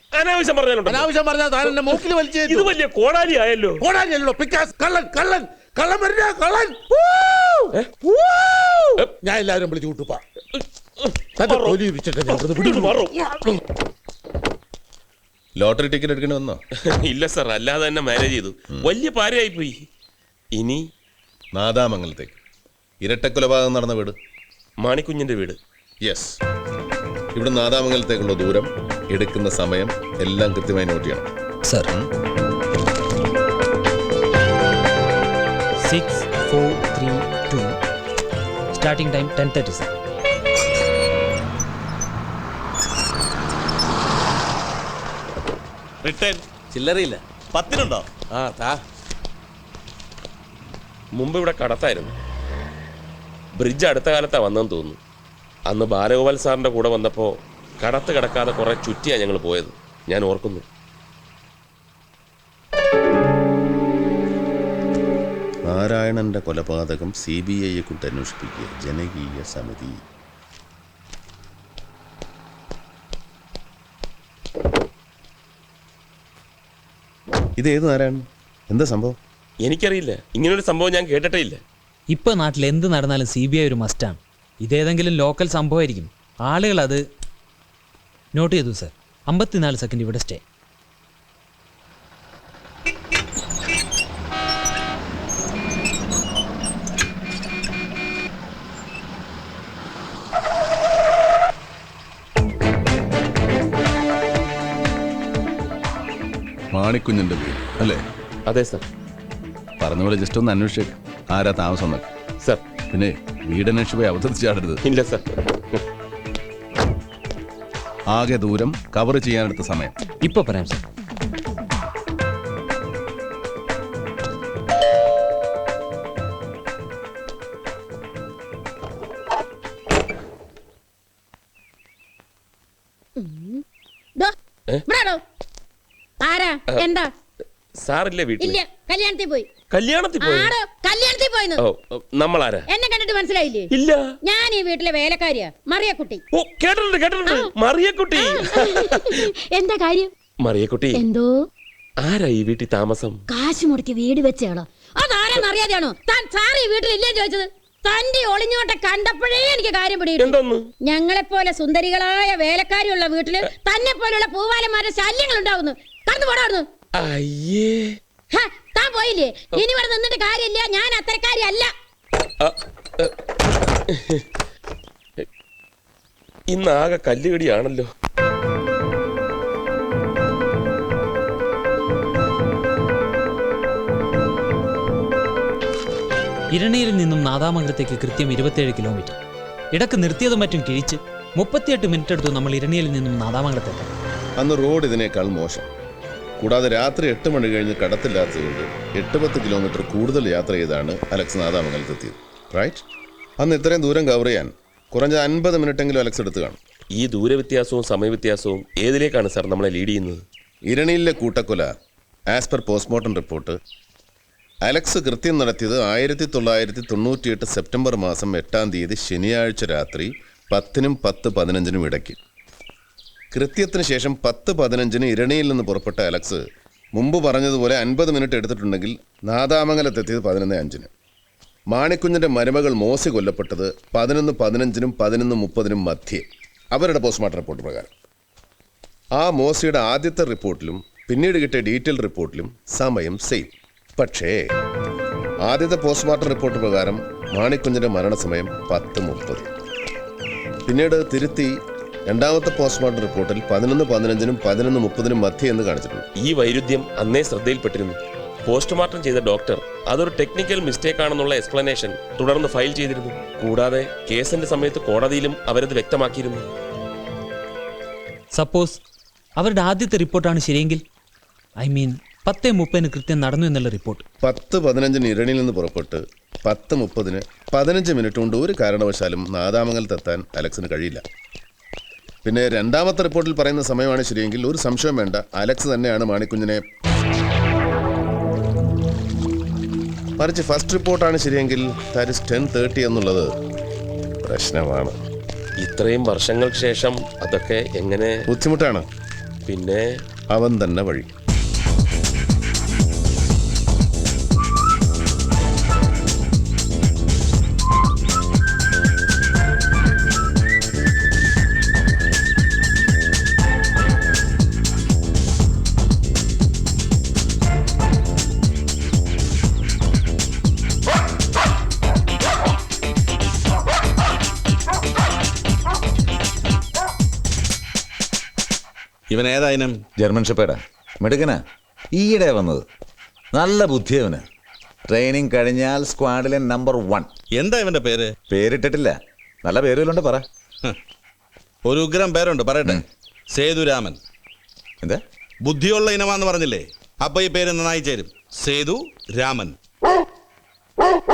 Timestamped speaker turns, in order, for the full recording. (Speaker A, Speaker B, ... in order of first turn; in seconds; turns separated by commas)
Speaker A: 0.1-1.1, Speaker B: 0.8-2.7, Speaker A: 1.6-3.8, Speaker B: 3.8-7.7, Speaker B: 8.4-10.2, Speaker A: 10.5-13.3, Speaker B: 11.4-13.0, Speaker C: 15.6-16.6, Speaker A: 16.9-19.7, Speaker A: 20.6-20.8, Speaker C: 21.5-22.4, Speaker C: 23.0-24.1, Speaker A: 24.8-25.6, Speaker C: 26.0-26.4, Speaker C: 27.3-31.3, Speaker D: 35.8-37.8, Speaker D: 38.7-39.9, Speaker A: 51.1-52.1, Speaker A: 53.6-55.0, Speaker A: 55.7-60.6, Speaker C: 65.7-70.0, Speaker C: 77.6-79.2, Speaker A: 79.6-81.6, Speaker D: 82.1-87.0, Speaker D: 88.3-90.4, Speaker C: 106.7-108.0, Speaker A: 108.5-108.8, Speaker C: 109.8-112.1, Speaker C: 112.9-114.8, Speaker A: 114.8-115.8, Speaker C: 118.1-119.9, Speaker D: 120.2-120.8, Speaker E: 133.2-133.6, Speaker E: 134.9-135.2, Speaker E: 136.2-137.1, Speaker A: 137.8-138.6, Speaker E: 138.4-139.5, Speaker A: 139.7-140.5, Speaker E: 140.2-141.6, Speaker A: 141.6-142.7, Speaker E: 142.7-143.7, Speaker A: 143.7-144.0, Speaker E: 144.2-146.2, Speaker A: 146.3-148.9, Speaker E: 147.2-147.5, Speaker E: 148.2-150.1, Speaker A: 150.4-151.0, Speaker E: 150.9-151.4, Speaker A: 152.0-153.2, Speaker E: 153.3-166.7, Speaker A: 160.2-160.7, Speaker A: 167.0-167.9, Speaker E: 168.3-171.7, Speaker A: 172.4-173.1, Speaker A: 173.9-174.2, Speaker A: 176.5-177.9, Speaker D: 186.5-189.2, Speaker D: 189.7-193.9, Speaker C: 194.4-195.7, Speaker C: 196.4-202.8, Speaker C: 203.4-206.6, Speaker A: 207.0-210.2, Speaker C: 210.7-211.7, Speaker C: 212.3-213.6, Speaker C: 214.6-222.2, Speaker C: 223.3-226.4, Speaker C: 226.9-230.9, Speaker C: 231.7-237.9, Speaker C: 239.2-244.4, Speaker C: 245.4-249.5, Speaker C: 250.7-251.5, Speaker C: 252.1-256.1, Speaker A: 256.2-266.5, Speaker D: 268.3-268.8, Speaker D: 269.4-270.8, Speaker D: 271.6-274.0, Speaker C: 274.2-281.0, Speaker C: 282.2-286.6, Speaker C: 290.2-293.3, Speaker C: 294.2-295.0, Speaker A: 295.6-298.1, Speaker C: 298.3-298.8, Speaker A: 299.5-299.9, Speaker C: 300.3-301.1, Speaker F: 329.1-329.8, Speaker G: 330.0-331.4, Speaker G: 331.9-332.6, Speaker G: 333.3-334.2, Speaker G: 334.9-337.1, Speaker F: 337.3-338.1, Speaker G: 338.3-340.2, Speaker F: 341.6-344.0, Speaker F: 345.4-349.6